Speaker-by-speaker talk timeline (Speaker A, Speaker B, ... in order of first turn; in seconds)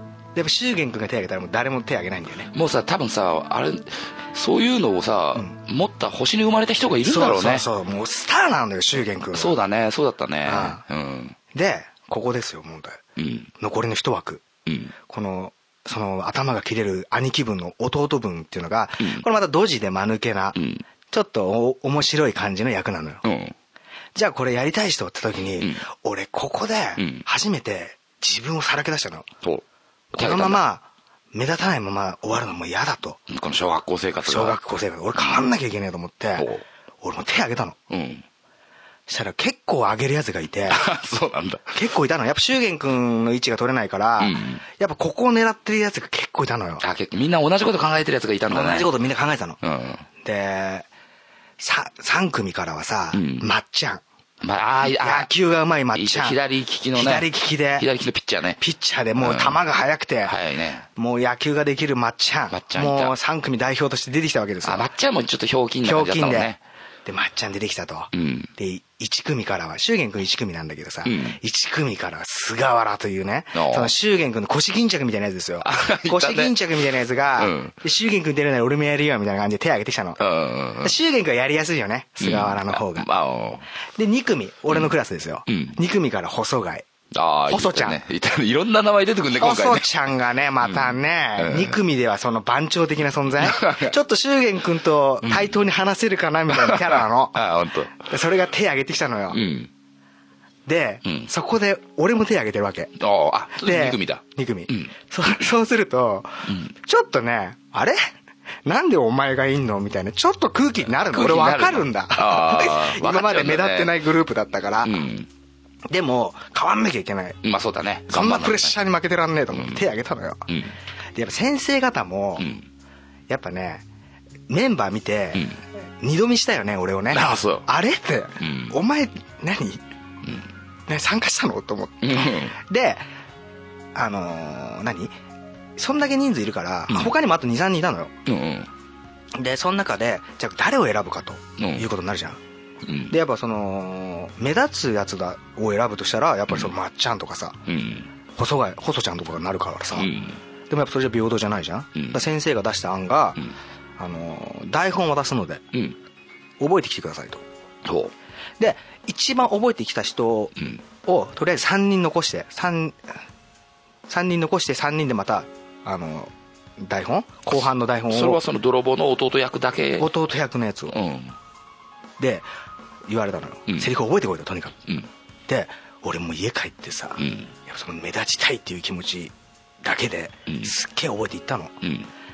Speaker A: 0.3-2.5, 7.0-9.6, 10.4-10.8, 11.5-13.0, 13.6-14.4, 15.0-20.6, 21.1-23.2, 24.1-29.3, 30.1-33.2, 34.2-36.5, 37.0-37.8, 39.1-40.9, 41.7-46.8, 48.5-49.6, 50.2-50.9, 51.6-54.0, 54.8-56.4, 56.9-57.9, 58.6-60.4, 61.0-64.9, 65.8-66.5, 67.1-80.2, 80.8-83.1, 84.0-86.9, 87.5-88.0, 89.3-99.4, 100.7-102.9, 103.6-108.0, 108.7-115.0, 115.9-117.4, 118.1-120.5, 121.2-122.5, 123.3-123.8, 124.5-129.8, 130.9-133.0, 133.9-135.2, 135.8-138.1, 139.3-142.4, 143.1-147.6, 148.4-150.1, 150.7-153.4, 154.0-155.6, 156.6-157.4, 158.6-163.1, 164.1-168.4, 170.0-171.0, 172.2-172.5, 173.1-174.8, 175.5-181.8
Speaker B: 2.5-7.7, 9.3-11.4, 13.2-13.5, 14.7-14.9, 19.0-19.3, 20.6-20.8, 23.2-23.6, 27.0-27.2, 29.4-30.6, 33.3-34.6, 35.2-35.5, 36.4-36.6, 37.9-38.2, 40.7-41.8, 44.2-44.6, 46.8-48.9, 49.6-50.1, 53.1-53.5, 54.4-55.3, 55.9-58.6, 59.2-59.6, 60.2-60.9, 62.5-63.1, 64.6-66.6, 68.1-68.5, 71.0-71.4, 73.5-73.9, 75.6-76.7, 77.4-77.7, 80.2-80.9, 82.2-83.7, 85.5-85.8, 87.1-89.9, 90.6-91.8, 93.4-93.9, 95.2-95.6, 96.5-98.0, 99.3-99.7, 101.0-101.3, 103.0-104.9, 106.5-106.7, 111.0-114.0, 114.8-115.3, 117.4-118.8, 119.5-119.9, 120.5-120.8, 122.4-122.7, 125.3-125.6, 127.1-127.7, 128.4-128.8, 132.0-132.6, 138.3-138.7, 141.6-141.9, 142.8-143.2, 147.7-148.1, 149.9-150.4, 152.0-152.2, 157.8-158.1, 160.6-160.8, 168.1-170.1, 170.9-171.4, 177.2-177.5, 180.5-180.8, 181.8-182.1